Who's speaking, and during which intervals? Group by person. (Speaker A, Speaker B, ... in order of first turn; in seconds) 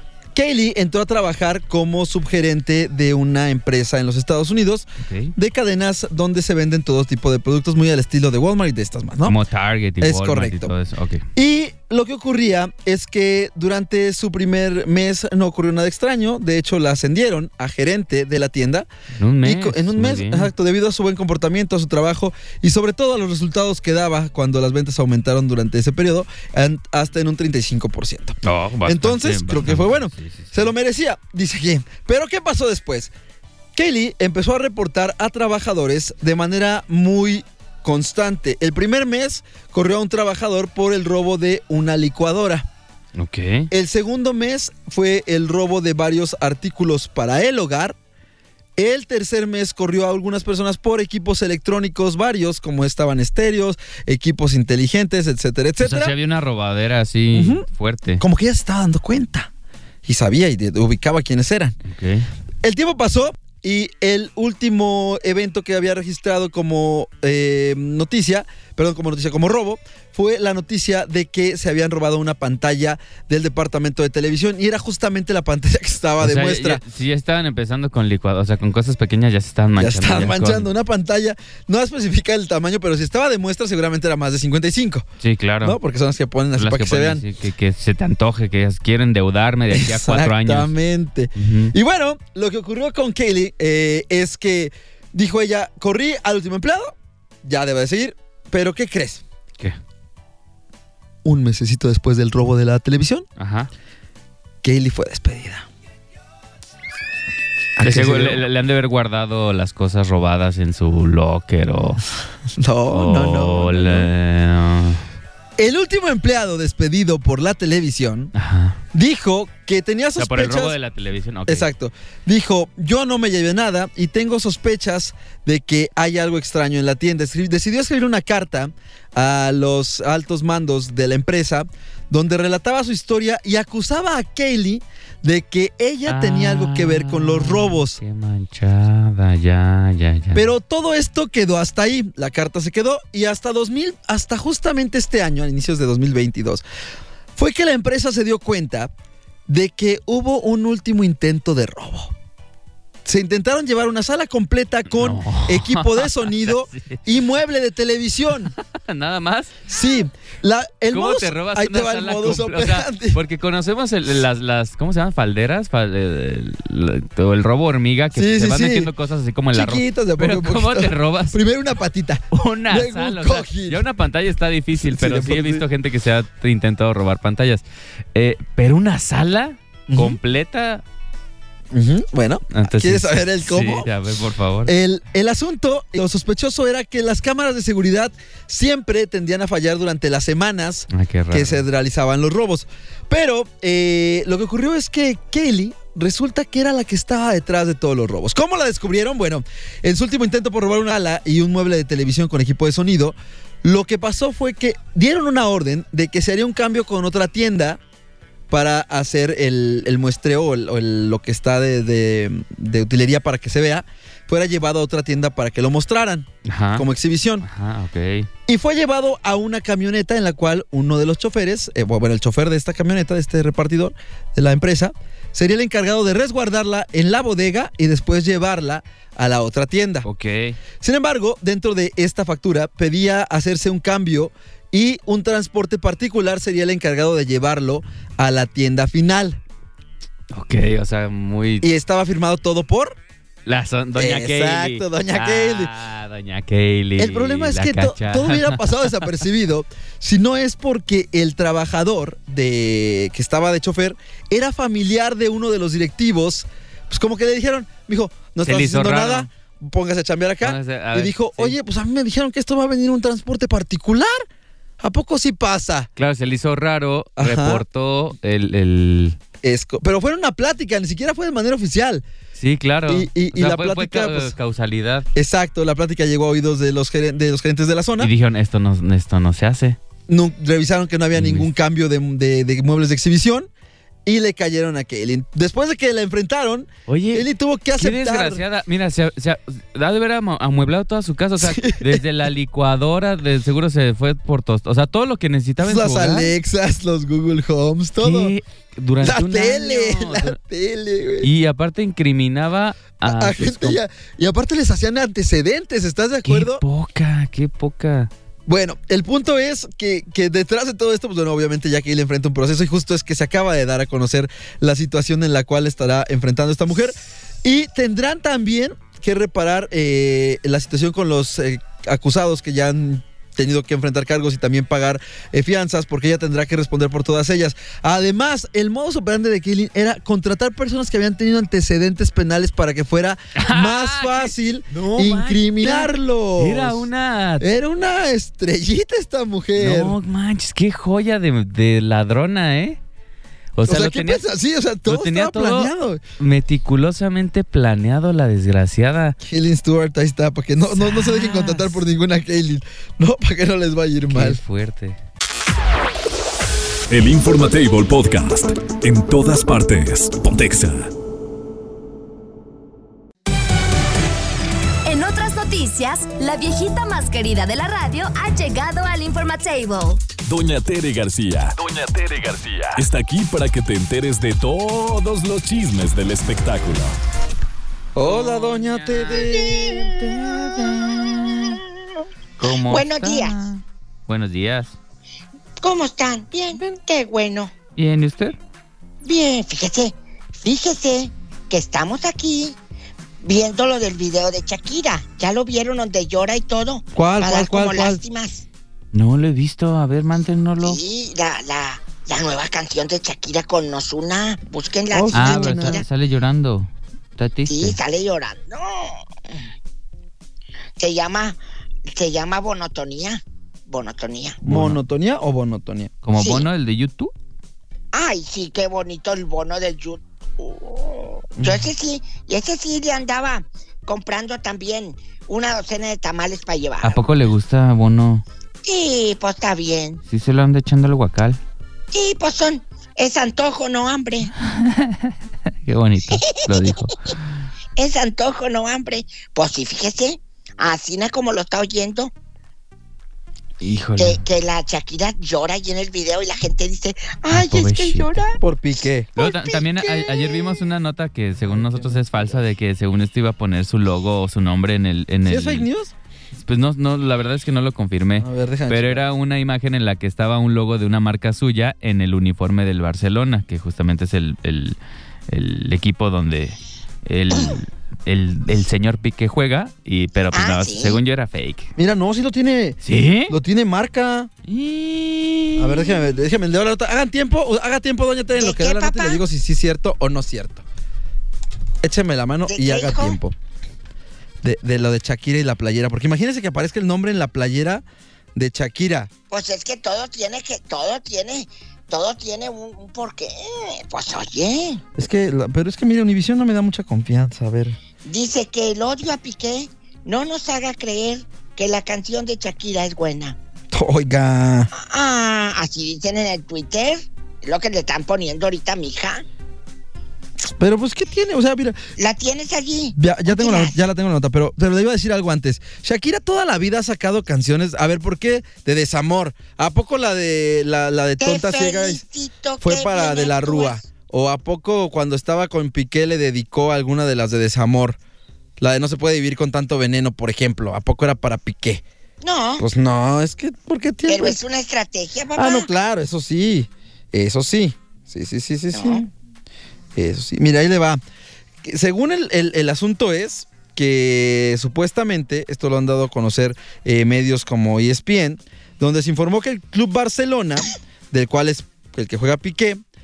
Speaker A: 0.3-9.4, 10.0-10.7, 11.3-18.9, 19.4-33.1, 33.8-42.7, 43.7-48.0, 48.8-56.1, 57.3-57.7, 58.2-59.5, 60.0-61.8, 62.6-76.8, 79.8-85.1, 85.6-87.2, 89.7-99.2, 101.2-103.3, 104.6-105.7, 107.8-108.4, 112.6-114.1, 115.6-118.3, 118.9-120.8, 121.5-138.0, 140.3-146.6, 147.4-148.9, 149.5-152.1, 153.1-158.5, 159.7-163.2, 168.1-168.9, 169.5-173.8, 174.8-175.7, 179.9-180.2, 181.7-183.9, 184.7-207.8, 208.5-217.5, 218.5-230.1, 230.8-239.4, 241.6-243.0, 243.9-245.7, 247.0-264.3, 264.8-265.9, 267.2-267.6, 269.4-272.0, 272.9-274.3, 275.1-278.1, 280.1-283.5, 284.1-288.4, 291.4-292.0, 295.6-298.3, 299.0-301.3, 303.0-306.6, 308.5-336.9, 337.4-340.0, 343.7-346.0, 349.2-354.4, 377.9-380.2, 396.9-398.0, 404.9-405.8, 414.4-415.9, 421.4-421.7, 448.4-449.1, 451.4-452.4, 455.2-455.9, 458.2-459.0, 471.8-474.3, 475.6-480.6, 481.8-483.4, 484.4-487.8, 488.4-489.1, 495.0-497.8, 503.7-504.7, 510.6-511.8, 513.0-522.0, 522.6-528.0, 528.6-531.8, 532.6-534.4, 535.4-539.1, 540.0-541.0, 541.6-552.8
Speaker B: 5.0-5.3, 9.2-11.3, 19.2-20.5, 28.4-30.7, 43.2-43.7, 55.8-58.2, 61.9-62.3, 76.2-80.7, 85.2-85.8, 86.6-90.7, 91.3-91.8, 103.4-103.7, 107.8-112.0, 112.9-115.0, 118.3-118.8, 120.2-121.7, 136.1-140.5, 154.9-157.0, 158.5-159.7, 160.9-171.4, 172.3-180.8, 182.5-184.8, 190.9-191.7, 216.5-216.9, 217.4-218.3, 230.0-230.6, 240.3-241.7, 243.5-249.1, 258.4-259.3, 260.4-261.6, 266.0-269.2, 272.4-275.1, 278.0-279.8, 281.1-281.5, 286.9-296.3, 298.0-300.4, 301.2-303.8, 306.2-308.1, 333.4-337.5, 339.6-342.8, 343.6-344.2, 344.9-349.2, 350.7-351.8, 354.1-355.0, 378.0-379.5, 380.0-381.6, 382.4-384.8, 387.8-388.4, 398.9-400.8, 405.1-407.8, 414.4-414.8, 416.0-417.1, 426.8-428.2, 430.1-431.4, 434.4-437.2, 443.6-444.2, 447.3-448.2, 449.2-455.7, 456.4-464.8, 465.3-471.7, 472.8-473.4, 474.5-476.0
Speaker C: 356.9-360.9, 370.2-377.0
Speaker D: 364.9-370.0
Speaker E: 379.5-380.1, 382.6-383.4, 385.6-387.5, 389.0-392.6, 393.2-398.5, 400.6-405.9, 407.5-409.0, 410.8-411.4, 411.9-414.4, 416.2-416.5, 417.9-427.0, 428.6-430.0, 431.9-434.3, 436.2-436.8, 437.8-442.1, 444.0-448.4, 449.2-450.7, 470.3-471.0, 478.4-479.2, 482.5-483.2, 489.3-494.8, 498.1-503.4, 504.7-509.3, 512.0-513.8, 521.2-523.8, 532.2-532.6, 534.1-535.7, 538.7-539.1